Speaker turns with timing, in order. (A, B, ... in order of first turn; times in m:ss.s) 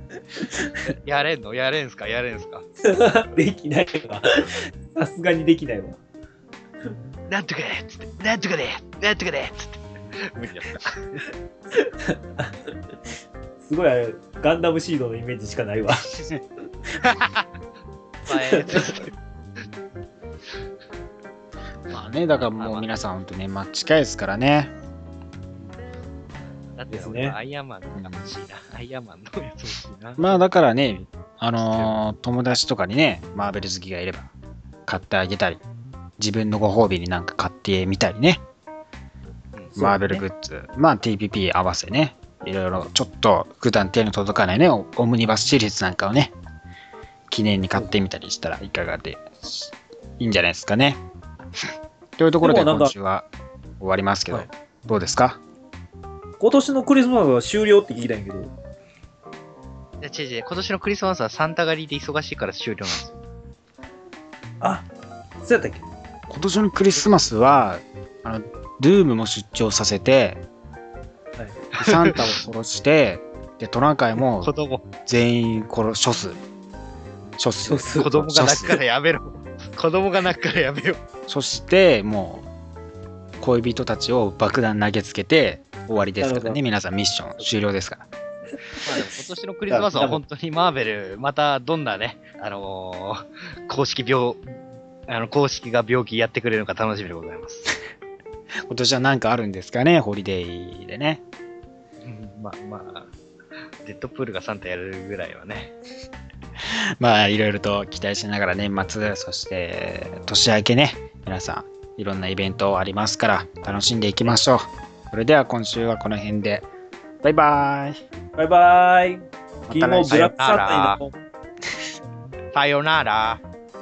0:00.4-0:00.8 A
0:00.9-0:02.6 B
0:02.8-0:06.0 A
0:07.3-0:11.2 B
0:11.7-0:12.6 A
0:13.6-0:16.1 A
0:16.1-0:16.4 C
0:17.0-0:17.4 B
0:18.3-0:19.0 A
0:18.3-0:19.1 B
0:21.9-0:24.7 C
0:22.6-0:22.9 B
0:26.7-0:30.3 B
0:26.9-0:27.4 A
0:28.0-0:28.3 C
0:30.2-0:34.3 C
0:31.6-0:31.9 B
0:34.9-0:35.6 C
0:36.2-0:38.4 C
0:39.7-0:40.2 A
0:39.8-0:46.3 C
0:47.3-0:51.0 C
0:52.2-0:53.2 C
0:52.4-0:52.9 A
0:53.8-0:55.4 C
0:56.4-0:58.5 A
1:00.0-1:03.2 B
1:04.6-1:04.9 A
1:05.4-1:05.9 A
1:06.3-1:10.4 C
1:11.8-1:14.5 C
1:11.8-1:12.4 B
1:14.4-1:14.9 B
1:15.0-1:16.4 C
1:17.4-1:18.8 C
1:17.7-1:18.1 A
1:18.0-1:21.0 B
1:21.3-1:22.5 C
1:23.4-1:28.0 C
1:26.2-1:26.6 A
1:28.8-1:37.7 B
1:29.7-1:30.2 A
1:38.7-1:41.2 C
1:42.0-1:43.1 B
1:43.8-1:45.7 B
1:47.0-1:56.7 C
1:57.2-1:58.0 C
1:58.4-2:01.1 A
1:59.7-2:00.2 C
2:00.1-2:01.0 B
2:02.5-2:03.4 B